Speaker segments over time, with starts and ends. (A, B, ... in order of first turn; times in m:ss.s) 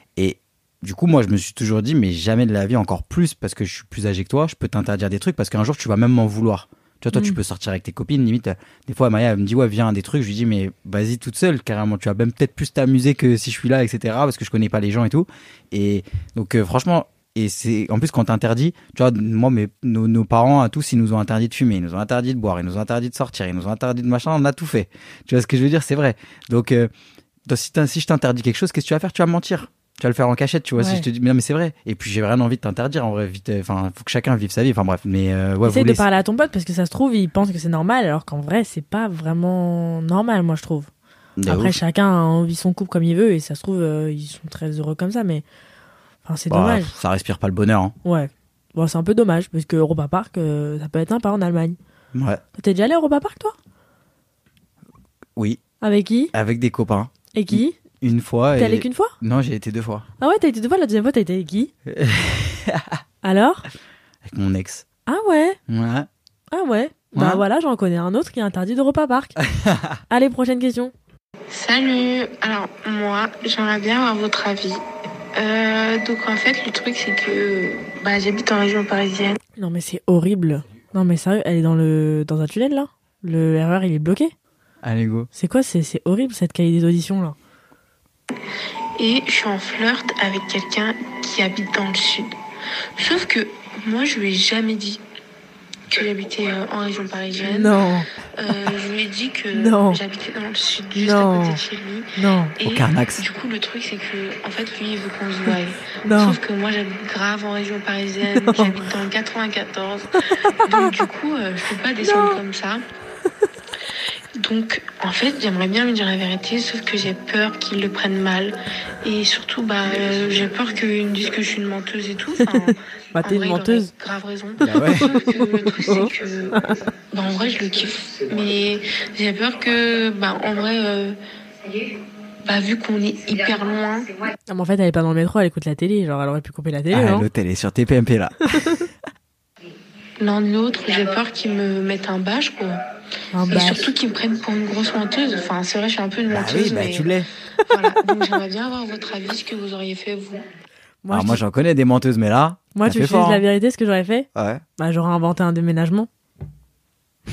0:00.2-0:26.9 A
0:07.1-0:07.4 B
0:27.5-0:36.0 A
0:30.8-0:31.0 B
0:35.6-0:40.9 B
0:41.4-0:41.8 A
0:41.5-0:45.4 B
0:46.2-0:46.9 B
0:46.5-0:48.0 A
0:48.0-0:51.8 B
0:52.1-0:52.4 A
0:52.6-0:53.6 B
0:55.4-0:55.6 A
0:55.8-0:56.3 B
0:56.3-1:00.0 A
0:57.3-0:57.8 B
0:58.6-0:59.1 B
1:00.2-1:01.7 B
1:01.9-1:03.0 A
1:03.2-1:03.7 B
1:04.2-1:04.8 A
1:05.1-1:05.6 B
1:05.7-1:06.1 A
1:06.5-1:09.4 B
1:07.2-1:07.4 A
1:09.4-1:10.0 A
1:10.1-1:10.9 B
1:11.5-1:14.8 C
1:15.4-1:19.4 C
1:19.6-1:24.3 B
1:24.8-1:25.3 A
1:25.4-1:27.4 B
1:29.0-1:32.3 C
1:33.0-1:35.0 C
1:35.9-1:37.8 C
1:37.5-1:38.1 B
1:38.4-1:52.8 C
1:39.5-1:40.0 B
1:41.0-1:41.6 B
1:42.2-1:42.6 B
1:42.6-1:43.2 A
1:46.0-1:46.4 B
1:48.4-1:48.8 B
1:52.0-1:52.4 B
1:54.4-2:06.6 C
2:02.4-2:03.9 B
2:04.6-2:06.8 B
2:04.6-2:05.1 A
2:07.1-2:11.2 C
2:12.4-2:14.1 C
2:14.5-2:17.3 B
2:16.9-2:18.9 A
2:18.6-2:18.8 B
2:20.2-2:22.8 C
2:23.3-2:23.9 B
2:23.5-2:27.1 C
2:26.3-2:27.3 A
2:27.7-2:30.4 C
2:31.0-2:31.4 B
2:31.1-2:33.4 A
2:32.8-2:36.1 B
2:34.4-2:34.6 A